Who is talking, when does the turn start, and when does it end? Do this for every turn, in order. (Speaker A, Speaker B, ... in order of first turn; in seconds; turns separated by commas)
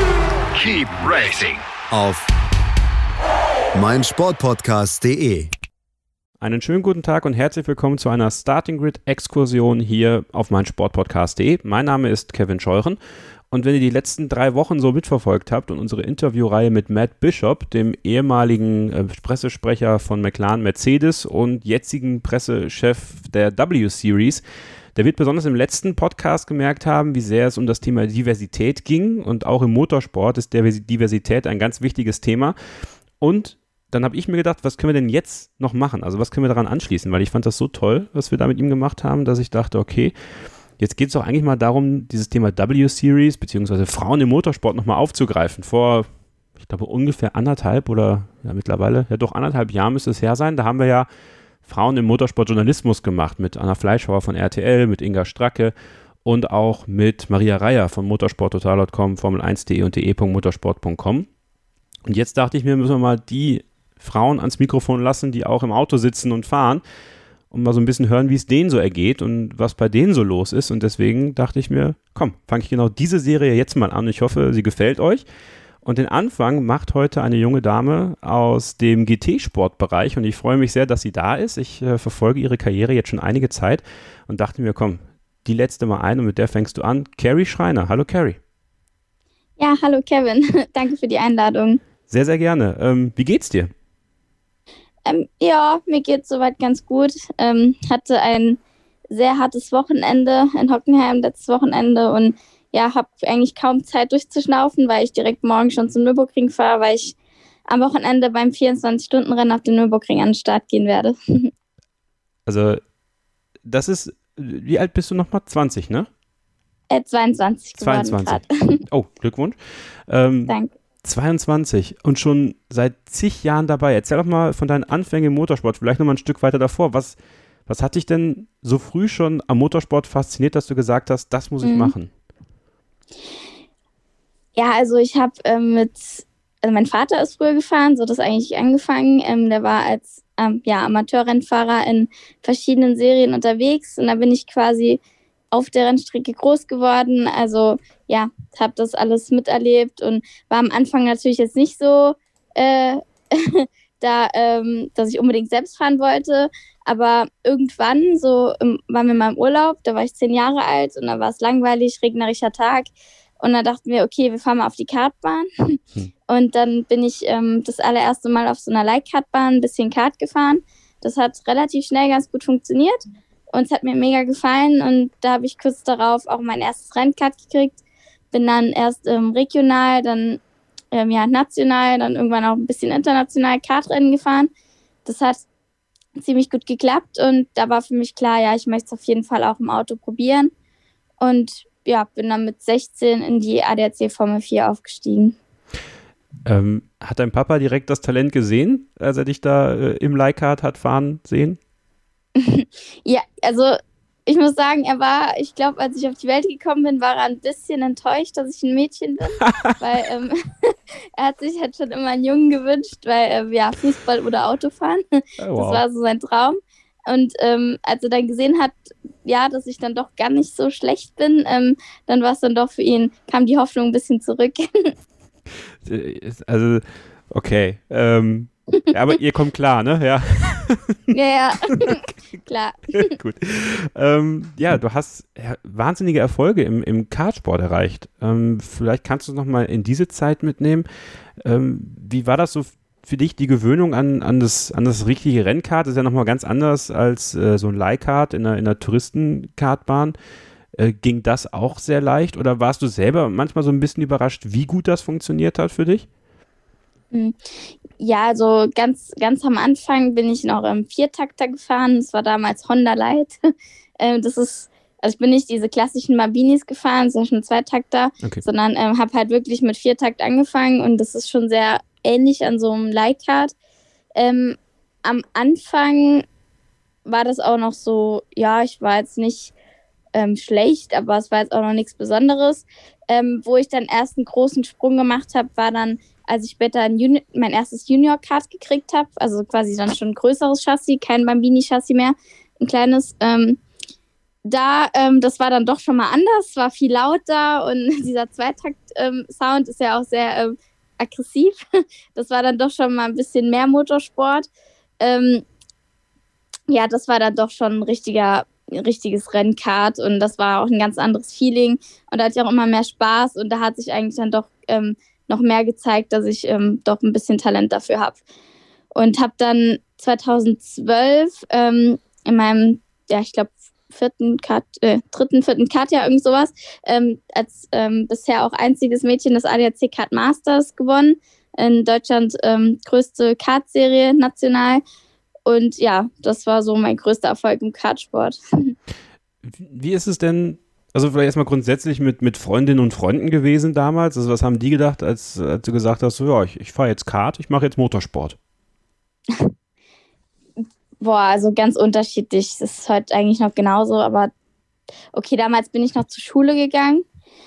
Speaker A: 0.6-1.6, Speaker B: 1.9-2.3, Speaker B: 3.7-5.5, Speaker A: 6.4-13.0, Speaker A: 13.5-24.4, Speaker A: 24.9-32.6, Speaker A: 33.2-40.1, Speaker A: 40.8-51.1, Speaker A: 51.6-61.3, Speaker A: 62.0-66.8, Speaker A: 67.5-75.2, Speaker A: 75.8-88.4, Speaker C: 89.6-91.8, Speaker A: 92.1-93.7, Speaker C: 95.0-107.2, Speaker C: 107.7-111.5, Speaker A: 112.5-112.8, Speaker A: 113.7-116.1, Speaker C: 116.9-118.8, Speaker A: 117.8-132.1, Speaker C: 120.5-120.7, Speaker C: 131.6-131.9, Speaker C: 134.6-145.0, Speaker C: 145.5-165.8, Speaker C: 166.3-177.8, Speaker C: 178.3-180.4, Speaker C: 180.9-184.5, Speaker C: 185.0-185.4, Speaker C: 186.2-190.5, Speaker C: 191.2-195.4, Speaker A: 196.4-201.6, Speaker C: 202.3-215.0, Speaker A: 209.4-209.7, Speaker A: 215.4-215.8, Speaker C: 215.5-224.9, Speaker A: 225.8-231.0, Speaker C: 231.1-233.1, Speaker A: 233.0-240.9, Speaker A: 241.4-250.2, Speaker A: 250.8-256.1, Speaker C: 257.9-263.4, Speaker C: 264.0-273.5, Speaker C: 274.1-276.2, Speaker C: 277.0-279.5, Speaker C: 280.1-293.6, Speaker C: 294.4-301.6, Speaker C: 302.1-304.5, Speaker C: 305.0-305.4, Speaker C: 306.7-318.2, Speaker C: 318.9-334.8, Speaker C: 335.4-338.7, Speaker A: 339.4-348.4, Speaker C: 351.0-354.3, Speaker C: 355.1-357.0